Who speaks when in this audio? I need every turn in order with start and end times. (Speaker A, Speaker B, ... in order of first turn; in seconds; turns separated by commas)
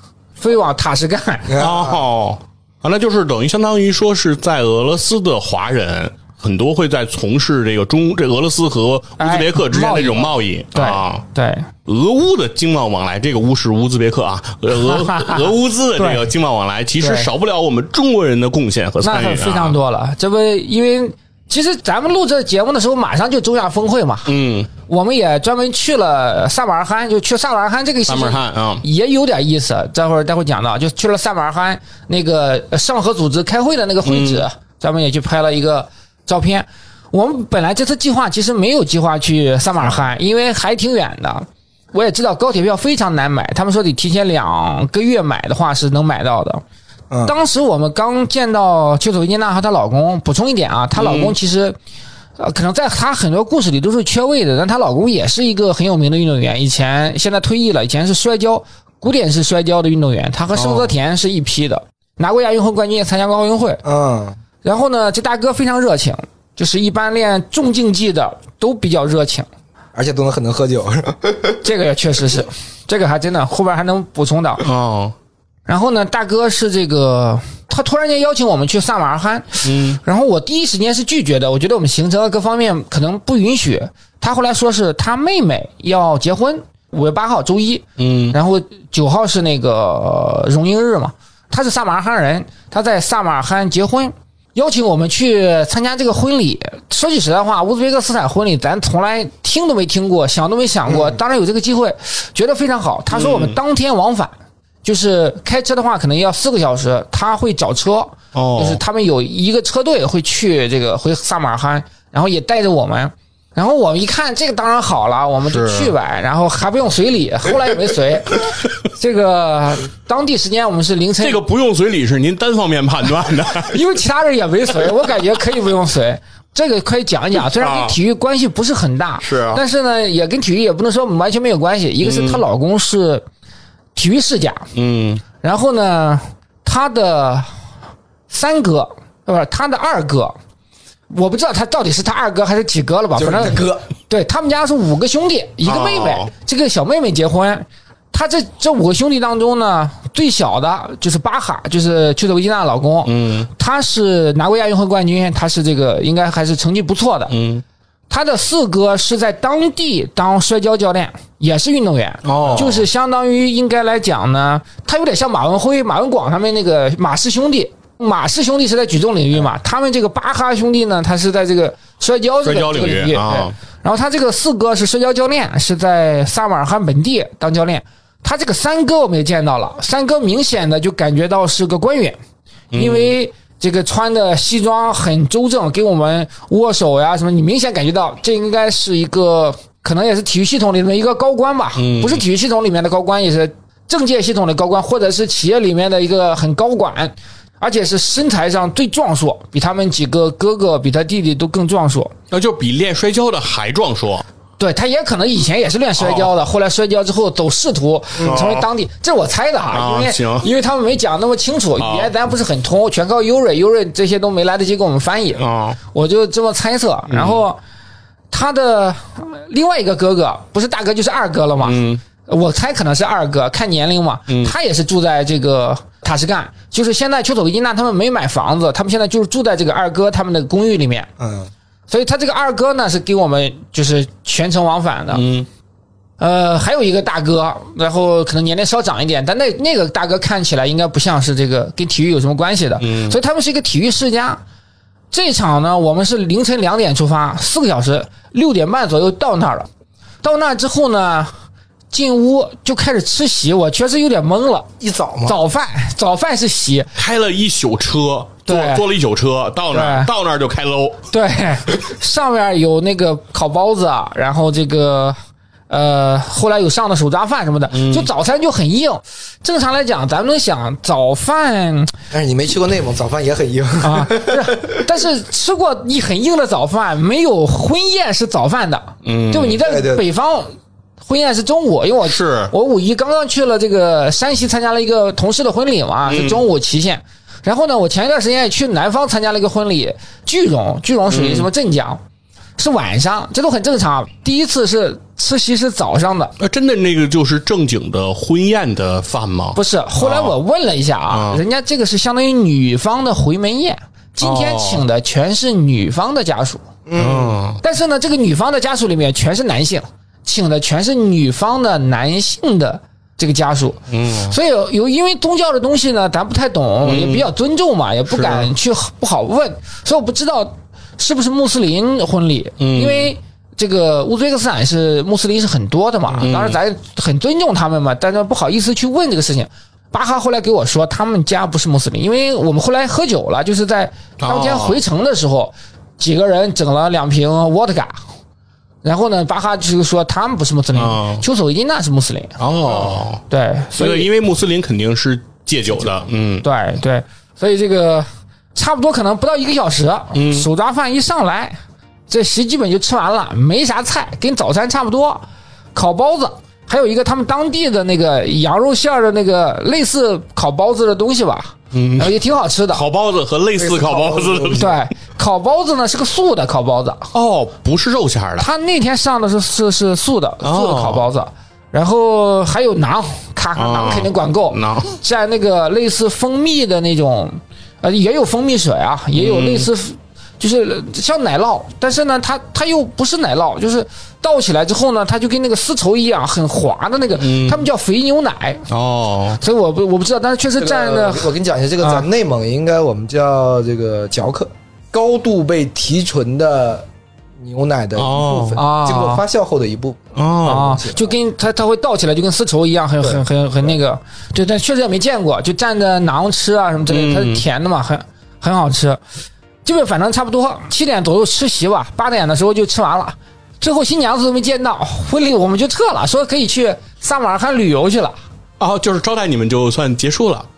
Speaker A: 0.4-1.6, Speaker B: 1.5-2.0, Speaker C: 1.6-11.2, Speaker A: 9.2-11.7, Speaker C: 11.9-19.8, Speaker A: 14.7-16.2, Speaker A: 17.0-17.3, Speaker A: 19.0-24.3, Speaker C: 24.3-24.7, Speaker A: 24.9-46.6, Speaker C: 28.1-28.8, Speaker C: 34.0-34.5, Speaker A: 47.2-51.8, Speaker C: 51.0-51.4, Speaker A: 52.4-63.8, Speaker B: 63.8-64.4, Speaker A: 64.6-69.5, Speaker B: 70.0-71.6, Speaker A: 71.6-74.6, Speaker C: 74.6-75.1, Speaker A: 75.7-104.3, Speaker C: 79.6-80.0, Speaker C: 88.0-88.4, Speaker C: 103.1-103.6, Speaker A: 104.8-121.4, Speaker C: 108.3-108.8, Speaker C: 115.5-115.9, Speaker C: 121.2-123.8, Speaker A: 123.7-133.2, Speaker C: 127.5-128.0, Speaker C: 129.2-129.6, Speaker C: 132.0-132.4, Speaker A: 133.9-134.7, Speaker C: 134.7-135.2, Speaker A: 135.4-137.5, Speaker A: 138.3-140.3, Speaker A: 141.1-157.3, Speaker B: 143.2-143.9, Speaker C: 145.7-146.3, Speaker C: 153.1-153.5, Speaker C: 157.3-157.6, Speaker A: 158.1-182.2, Speaker C: 162.2-162.9, Speaker C: 172.4-173.5, Speaker C: 182.7-183.1, Speaker A: 182.7-202.1, Speaker C: 191.8-192.2, Speaker C: 202.3-204.2, Speaker A: 204.6-217.6, Speaker C: 206.0-206.3, Speaker C: 208.2-208.7, Speaker C: 209.7-210.5, Speaker C: 211.8-212.1, Speaker C: 215.4-215.8, Speaker C: 217.1-217.4, Speaker A: 218.3-231.1, Speaker C: 221.6-222.0, Speaker C: 224.3-224.5, Speaker B: 231.2-231.5, Speaker A: 231.9-235.2, Speaker C: 235.1-235.5, Speaker A: 236.2-244.4, Speaker C: 242.8-243.2, Speaker A: 245.1-249.7, Speaker A: 250.2-251.3, Speaker A: 251.9-254.7, Speaker B: 254.8-255.4, Speaker A: 255.2-256.9, Speaker C: 257.0-261.0, Speaker A: 258.5-258.9, Speaker A: 259.7-260.1, Speaker A: 261.1-265.2, Speaker A: 265.7-271.9, Speaker C: 267.7-268.1, Speaker B: 272.1-274.8, Speaker A: 273.8-280.5, Speaker C: 279.0-279.6, Speaker B: 279.6-280.0, Speaker A: 281.1-292.0, Speaker C: 282.0-282.5, Speaker C: 286.1-286.4, Speaker C: 291.1-291.5, Speaker A: 292.6-296.3, Speaker C: 296.4-300.4, Speaker A: 299.6-306.6, Speaker C: 301.1-301.4, Speaker C: 304.2-304.8, Speaker B: 306.9-307.4, Speaker C: 307.0-307.6, Speaker A: 307.6-338.0, Speaker C: 313.9-314.4, Speaker C: 316.8-317.3, Speaker C: 318.1-318.5, Speaker C: 322.6-323.1, Speaker C: 326.2-326.6, Speaker C: 334.2-334.8, Speaker A: 338.8-342.4, Speaker C: 340.7-341.2, Speaker C: 342.4-343.2, Speaker A: 343.3-344.1, Speaker C: 343.8-346.4, Speaker A: 346.4-355.2, Speaker C: 350.1-350.5, Speaker A: 355.8-362.9, Speaker C: 361.7-362.2, Speaker C: 362.7-364.8, Speaker B: 363.6-364.7, Speaker A: 364.6-367.1, Speaker C: 367.1-368.5, Speaker A: 368.4-388.6, Speaker C: 370.4-371.0, Speaker C: 373.6-375.0, Speaker C: 379.2-379.7, Speaker C: 387.2-387.7, Speaker C: 388.7-389.4, Speaker A: 389.4-392.1, Speaker B: 390.6-396.9, Speaker B: 397.4-401.1, Speaker C: 398.0-398.6, Speaker A: 398.6-399.2, Speaker C: 400.2-400.7, Speaker A: 400.4-409.0, Speaker C: 406.9-407.4, Speaker A: 409.6-418.2, Speaker C: 418.6-420.5